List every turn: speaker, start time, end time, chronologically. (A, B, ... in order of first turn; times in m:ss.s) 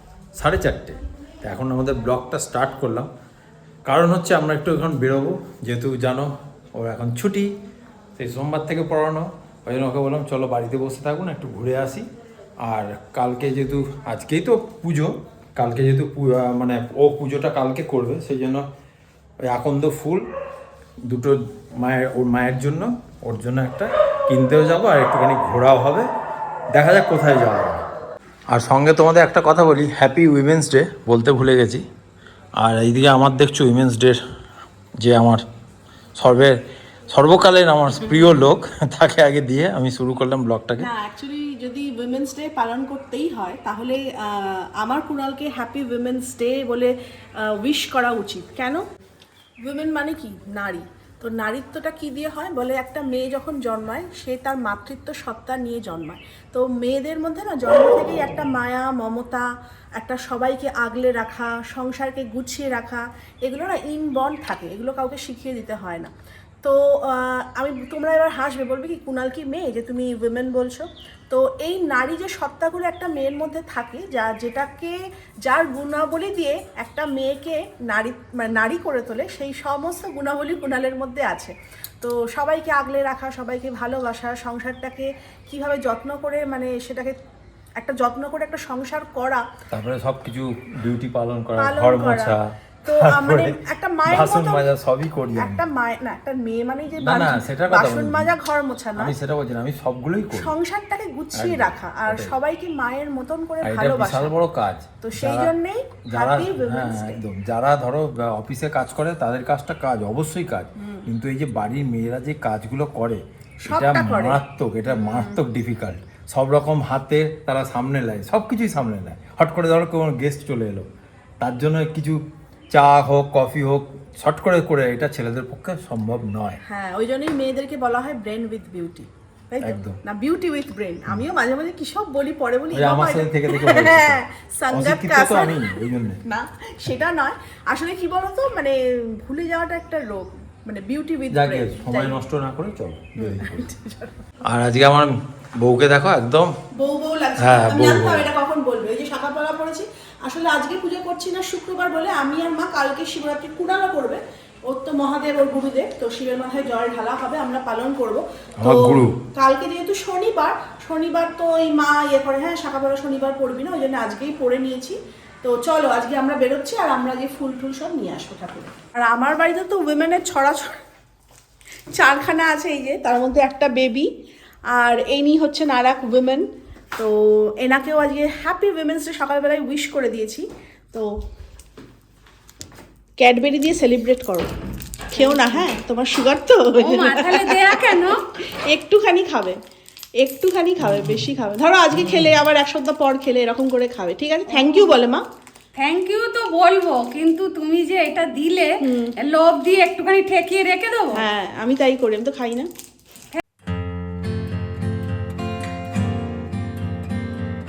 0:00.3-0:03.1 A
0:03.8-0:07.5 A
0:08.2-0:12.0 A
0:12.6-0:18.6 A
0:19.4-0:20.2 A
0:21.1-0:26.1 A
0:26.7-0:27.8 A
0:28.5-0:31.8 A
0:32.6-0:34.2 A
0:35.0-0:35.4 A
0:36.2-0:36.6 A
0:37.1-0:40.9 A
0:40.8-0:48.8 B
0:49.6-0:59.4 B
1:00.0-1:06.1 B
1:06.6-1:27.2 B
1:27.8-1:29.4 B
1:29.7-1:35.6 A
1:31.6-1:34.7 B
1:35.3-1:39.1 B
1:37.0-1:38.3 A
1:39.0-1:40.5 A
1:40.3-1:44.3 B
1:41.3-1:42.3 A
1:43.6-1:45.5 A
1:45.0-1:47.2 B
1:46.1-2:00.9 A
1:50.8-1:51.0 B
1:53.6-1:54.4 B
1:54.9-1:55.4 B
2:01.4-2:02.2 A
2:02.7-2:06.6 A
2:06.6-2:22.2 B
2:09.6-2:10.0 A
2:12.7-2:16.2 A
2:21.3-2:23.6 A
2:23.2-2:24.1 B
2:24.4-2:26.5 A
2:26.8-2:50.8 B
2:27.4-2:28.3 A
2:38.6-2:39.1 A
2:51.9-2:54.1 B
2:54.7-3:01.1 B
3:03.2-3:04.5 B
3:05.1-3:09.6 B
3:06.8-3:08.2 C
3:10.2-3:15.2 B
3:14.5-3:15.0 C
3:15.8-3:21.2 C
3:18.8-3:19.1 B
3:21.1-3:22.7 B